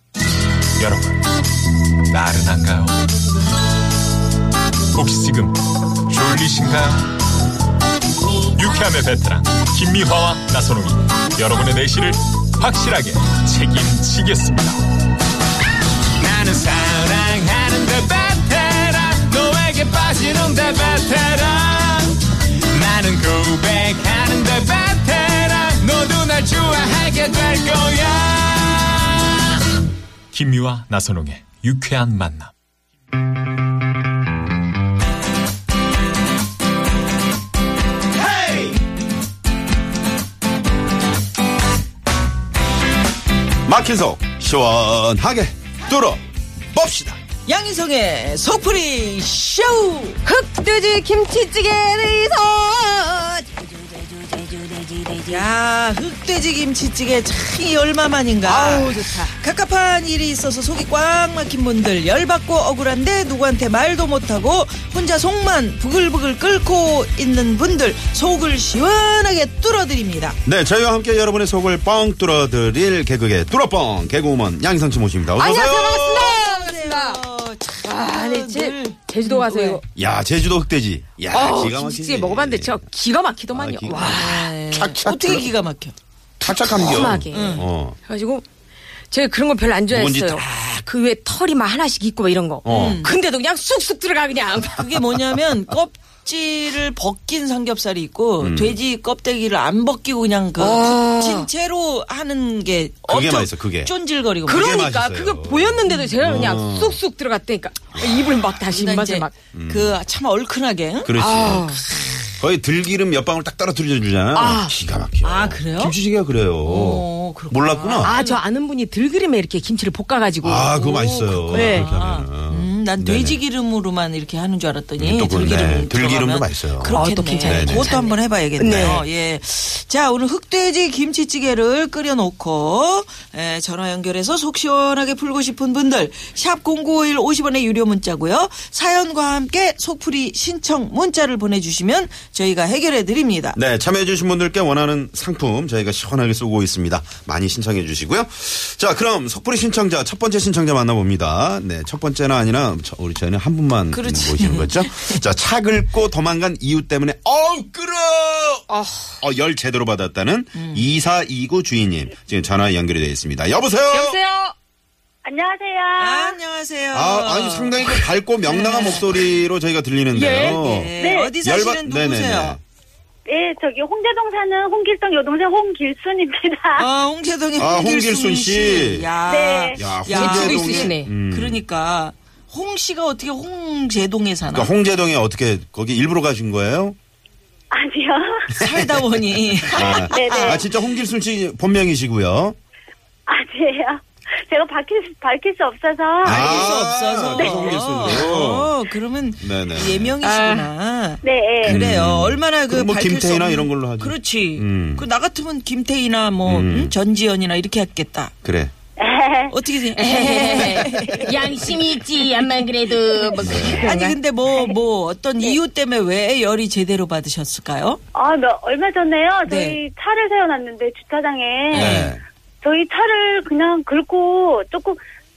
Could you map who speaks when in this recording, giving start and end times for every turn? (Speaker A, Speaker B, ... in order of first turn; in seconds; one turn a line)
Speaker A: 0.8-1.2
Speaker A: 2.1-3.0
Speaker A: 4.9-7.2
Speaker A: 8.5-14.8
Speaker A: 16.2-22.2
Speaker A: 22.7-29.3
Speaker A: 30.3-32.5
Speaker B: 43.6-47.2
Speaker C: 47.5-50.2
Speaker D: 50.2-55.5
Speaker C: 55.3-70.4
Speaker D: 58.4-59.4
Speaker B: 70.5-76.3
Speaker D: 75.3-77.2
Speaker C: 76.0-79.8
Speaker D: 77.8-79.8
Speaker B: 80.0-82.8
Speaker D: 81.3-84.5
Speaker B: 83.5-85.5
Speaker C: 84.1-86.0
Speaker D: 86.4-88.5
Speaker B: 86.4-88.0
Speaker C: 87.3-87.7
Speaker D: 89.1-95.0
Speaker B: 89.9-90.5
Speaker B: 92.6-93.1
Speaker C: 92.7-93.2
Speaker C: 94.6-104.7
Speaker B: 98.4-98.8
Speaker D: 100.6-101.5
Speaker B: 103.1-103.9
Speaker D: 104.5-109.3
Speaker B: 104.5-107.0
Speaker C: 105.9-106.2
Speaker B: 107.9-108.6
Speaker C: 108.7-111.2
Speaker B: 109.5-110.0
Speaker B: 111.0-111.8
Speaker D: 111.2-111.9
Speaker B: 112.4-118.2
Speaker D: 114.3-114.7
Speaker C: 115.2-116.0
Speaker C: 116.6-118.4
Speaker D: 118.0-120.8
Speaker B: 120.4-123.4
Speaker C: 120.8-143.6
Speaker D: 121.5-121.9
Speaker B: 125.0-128.0
Speaker D: 126.9-129.1
Speaker B: 128.7-129.0
Speaker B: 143.6-158.7
Speaker C: 153.9-155.2
Speaker D: 158.7-159.2
Speaker B: 159.2-164.2
Speaker C: 160.6-160.9
Speaker D: 163.9-164.5
Speaker E: 165.2-166.4
Speaker C: 166.0-169.2
Speaker B: 166.9-170.9
Speaker C: 170.1-172.6
Speaker D: 170.2-170.6
Speaker E: 171.0-171.3
Speaker B: 171.4-172.6
Speaker E: 173.3-176.9
Speaker C: 176.8-184.7
Speaker B: 177.6-179.1
Speaker E: 179.3-179.9
Speaker B: 179.7-181.6
Speaker D: 180.1-181.1
Speaker B: 184.5-187.0
Speaker E: 187.7-188.6
Speaker B: 188.5-189.0
Speaker C: 188.6-190.7
Speaker B: 189.7-192.6
Speaker E: 190.0-190.7
Speaker E: 193.3-196.8
Speaker B: 196.2-198.8
Speaker C: 196.3-208.3
Speaker E: 197.4-198.2
Speaker B: 199.4-200.2
Speaker D: 200.2-200.7
Speaker E: 201.2-201.8
Speaker B: 201.6-205.1
Speaker B: 206.4-206.9
Speaker B: 208.4-208.7
Speaker E: 209.0-209.6
Speaker C: 209.5-212.4
Speaker D: 209.9-214.2
Speaker C: 213.2-218.0
Speaker B: 213.4-213.9
Speaker E: 218.1-222.0
Speaker C: 219.5-219.8
Speaker C: 221.7-222.1
Speaker B: 221.7-222.2
Speaker E: 222.6-225.0